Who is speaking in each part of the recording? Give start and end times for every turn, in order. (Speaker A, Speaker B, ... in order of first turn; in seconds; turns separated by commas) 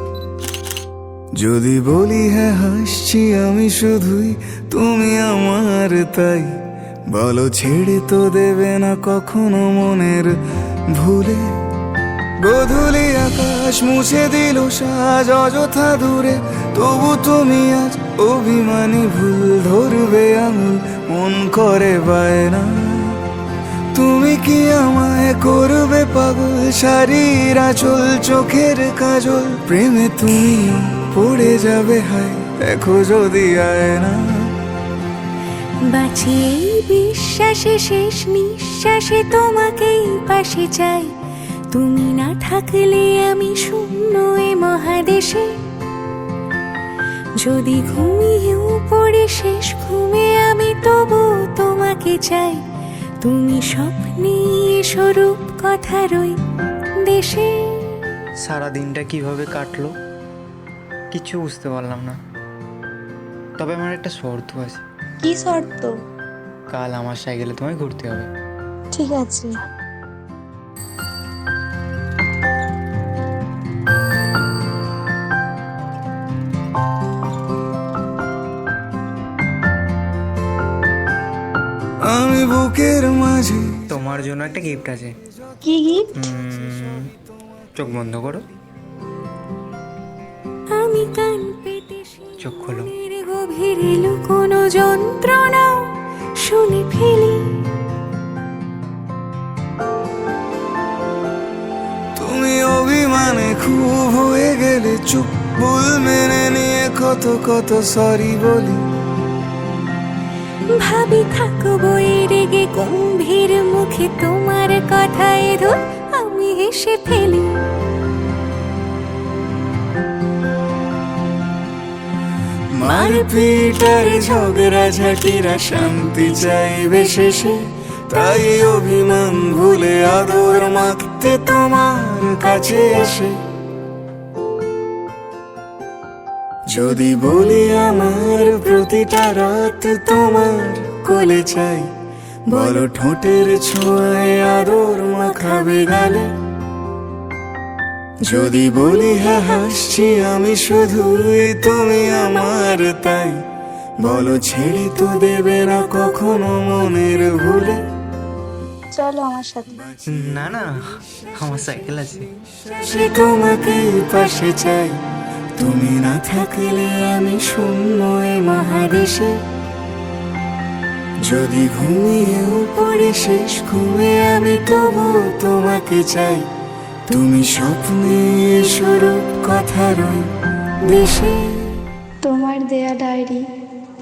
Speaker A: 1.3-10.4, Speaker A: 10.9-11.5, Speaker A: 12.4-23.2, Speaker A: 23.9-34.5, Speaker B: 35.9-41.1, Speaker B: 41.7-45.7, Speaker B: 47.4-52.6, Speaker B: 53.2-56.4, Speaker B: 57.0-58.2, Speaker C: 58.4-59.9, Speaker C: 61.1-62.2, Speaker C: 63.6-64.8, Speaker D: 65.2-65.9, Speaker C: 66.7-68.3, Speaker D: 68.9-69.5, Speaker A: 82.0-83.8, Speaker C: 83.9-85.2, Speaker D: 85.7-86.1, Speaker C: 86.1-87.1, Speaker C: 87.8-88.4, Speaker B: 90.7-92.3, Speaker C: 92.4-92.9, Speaker B: 92.9-97.7, Speaker A: 102.2-108.8, Speaker B: 110.7-117.6, Speaker A: 122.7-133.4, Speaker B: 122.8-126.0, Speaker A: 136.7-141.9, Speaker A: 142.5-146.3, Speaker B: 142.5-142.8, Speaker A: 148.2-153.4, Speaker A: 154.0-157.8, Speaker D: 158.9-159.8, Speaker C: 160.1-160.8, Speaker C: 161.3-162.3, Speaker A: 162.5-165.0, Speaker A: 165.6-169.4, Speaker A: 171.2-176.5, Speaker A: 177.1-180.3, Speaker A: 180.8-181.8, Speaker D: 182.2-183.4